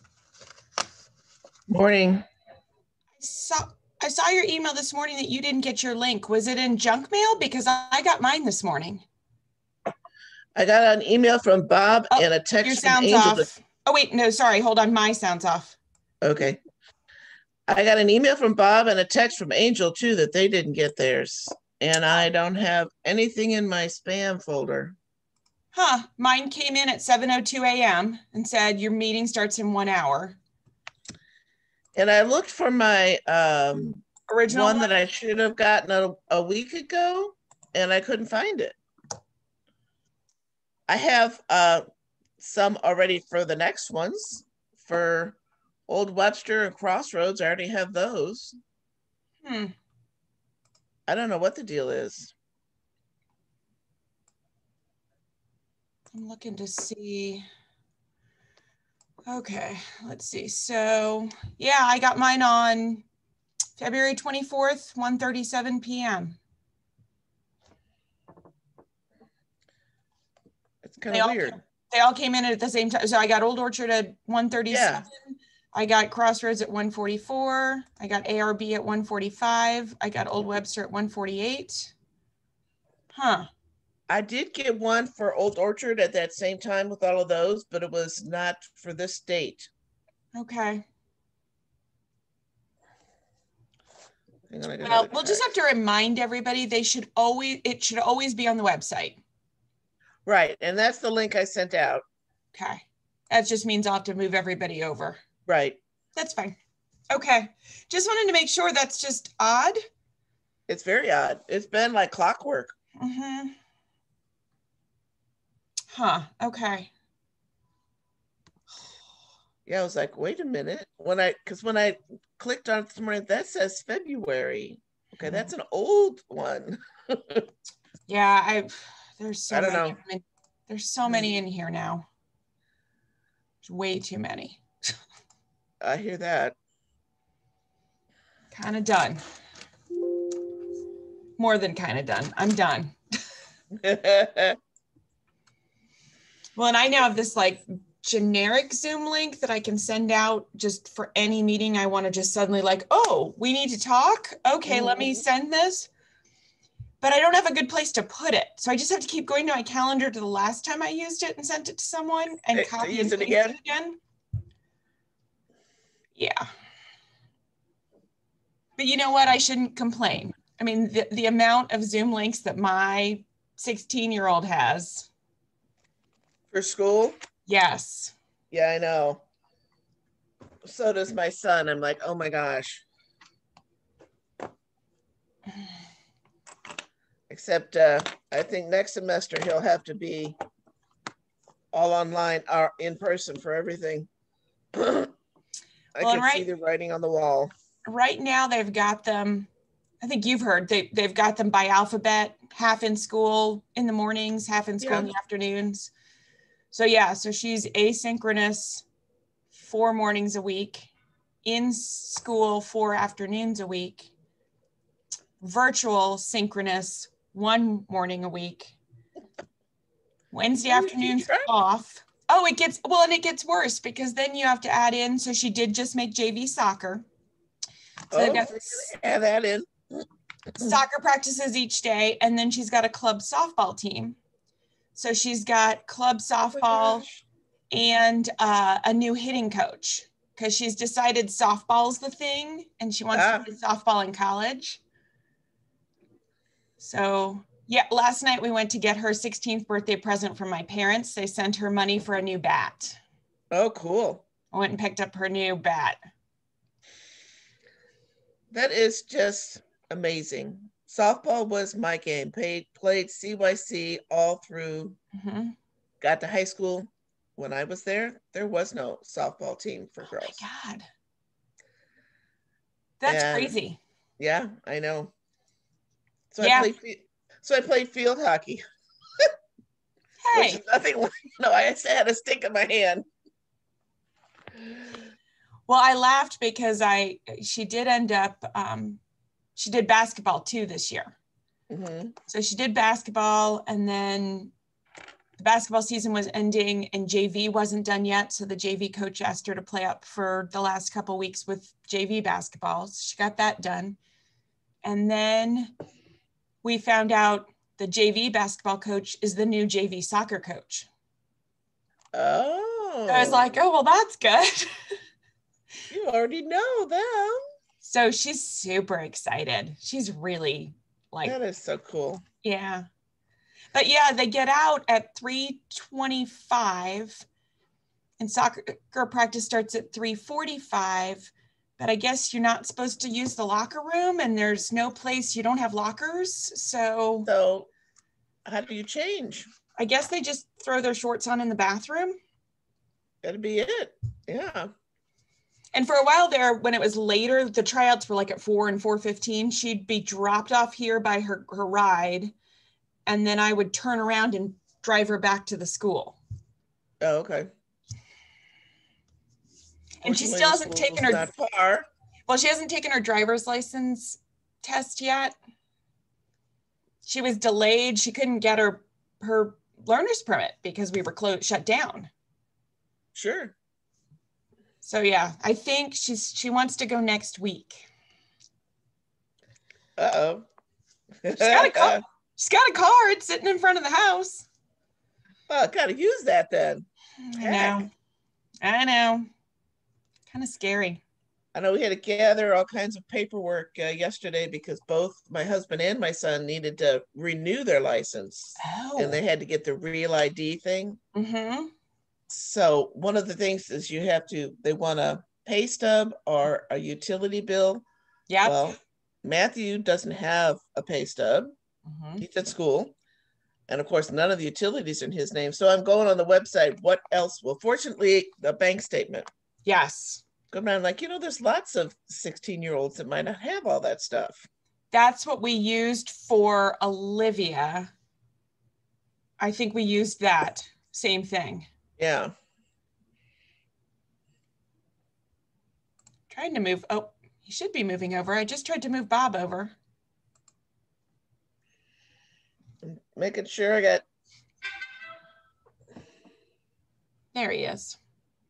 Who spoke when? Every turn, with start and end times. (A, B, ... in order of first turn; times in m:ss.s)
0:01.7-0:02.2 A
0:03.2-0:09.0 B
0:10.5-0:13.5 A
0:12.1-0:15.8 B
0:16.2-0:16.6 A
0:17.7-0:25.0 A
0:25.7-0:30.4 B
0:31.9-0:38.7 A
0:34.3-0:34.9 B
0:40.9-0:41.8 A
0:42.4-0:45.4 A
0:45.9-0:48.6 A
0:49.4-0:49.7 B
0:51.1-0:52.3 A
0:56.1-0:57.4 B
0:59.2-1:03.0 B
1:03.8-1:06.4 B
1:10.8-1:11.6 A
1:11.1-1:21.9 B
1:14.7-1:15.0 A
1:23.1-1:23.5 B
1:24.1-1:29.7 A
1:30.3-1:30.8 B
1:34.5-1:35.5 A
1:34.8-1:39.2 B
1:40.2-1:42.0 A
1:42.5-1:45.2 B
1:45.5-1:45.8 A
1:46.2-1:46.6 B
1:47.1-1:49.8 B
1:50.7-1:52.7 A
1:53.0-1:53.5 B
1:55.9-1:56.9 B
1:59.6-2:07.5 A
2:05.2-2:05.5 B
2:08.1-2:12.1 B
2:09.5-2:10.0 A
2:13.6-2:14.6 B
2:15.8-2:16.5 A
2:18.5-2:19.2 B
2:21.4-2:22.9 B
2:23.8-2:24.6 A
2:26.6-2:35.9 B
2:34.7-2:35.1 A
2:37.0-2:44.0 B
2:42.5-2:43.6 A
2:46.2-2:46.5 B
2:48.8-2:55.1 B
2:56.5-2:57.2 A
2:57.5-2:58.1 B
2:58.5-2:59.2 A
3:00.6-3:02.8 A
3:07.3-3:10.4 A
3:11.7-3:14.1 A
3:14.7-3:15.1 A
3:15.9-3:17.5 A
3:16.0-3:16.5 B
3:17.9-3:19.5 B
3:20.0-3:25.9 B
3:24.8-3:25.1 A
3:26.7-3:28.8 B
3:29.5-3:30.9 B
3:31.4-3:34.1 B
3:35.4-3:38.7 B
3:40.3-3:47.0 B
3:40.7-3:41.5 A
3:48.1-3:48.9 B
3:48.1-3:50.0 A
3:50.6-3:54.2 B
3:54.9-3:57.1 B
3:56.6-3:57.0 A
3:57.7-4:04.8 B
4:03.1-4:03.4 A
4:06.8-4:13.0 B
4:13.5-4:14.2 A
4:14.5-4:16.0 B
4:18.5-4:25.0 A
4:25.1-4:25.5 B
4:26.0-4:30.4 A
4:30.1-4:30.9 B
4:33.0-4:33.8 B
4:33.0-4:33.5 A
4:34.2-4:35.1 A
4:36.3-4:38.6 A
4:36.4-4:36.7 B
4:40.2-4:40.6 B
4:40.3-4:43.1 A
4:45.7-4:49.0 B
4:49.6-4:51.1 B
4:51.7-4:52.1 A
4:52.3-4:54.5 B
4:55.4-5:04.0 B
5:04.8-5:05.7 B
5:06.6-5:10.9 B
5:12.1-5:13.4 A
5:13.1-5:14.7 B
5:15.9-5:17.4 A
5:17.8-5:21.4 B
5:21.2-5:22.2 A
5:22.4-5:22.9 B
5:23.7-5:27.2 B
5:28.2-5:37.3 B
5:37.2-5:37.7 A
5:38.4-5:39.5 A
5:39.8-5:42.2 B
5:43.2-5:44.7 A
5:45.7-5:52.3 B
5:53.0-5:56.2 B
5:57.0-5:57.5 A
6:00.0-6:01.3 B
6:00.0-6:01.9 A
6:02.3-6:05.3 B
6:07.0-6:12.1 B
6:13.1-6:13.5 A
6:14.8-6:17.8 B
6:20.0-6:20.4 A
6:21.2-6:22.0 A
6:21.3-6:24.4 B
6:25.5-6:26.9 A
6:27.2-6:27.9 B
6:27.4-6:27.8 A
6:28.6-6:29.3 B
6:30.3-6:31.0 B
6:31.5-6:41.0 A
6:38.6-6:39.2 B
6:41.1-6:41.7 B
6:42.3-6:47.8 A
6:48.3-6:48.7 B
6:48.4-6:51.5 A
6:51.9-6:52.2 B
6:52.2-6:52.9 A
6:53.7-6:59.3 A
6:59.6-7:00.2 B
7:00.5-7:04.5 A
7:04.9-7:07.9 B
7:09.4-7:11.7 B
7:12.0-7:12.3 A
7:16.3-7:19.7 B
7:22.8-7:24.0 A
7:27.3-7:28.0 B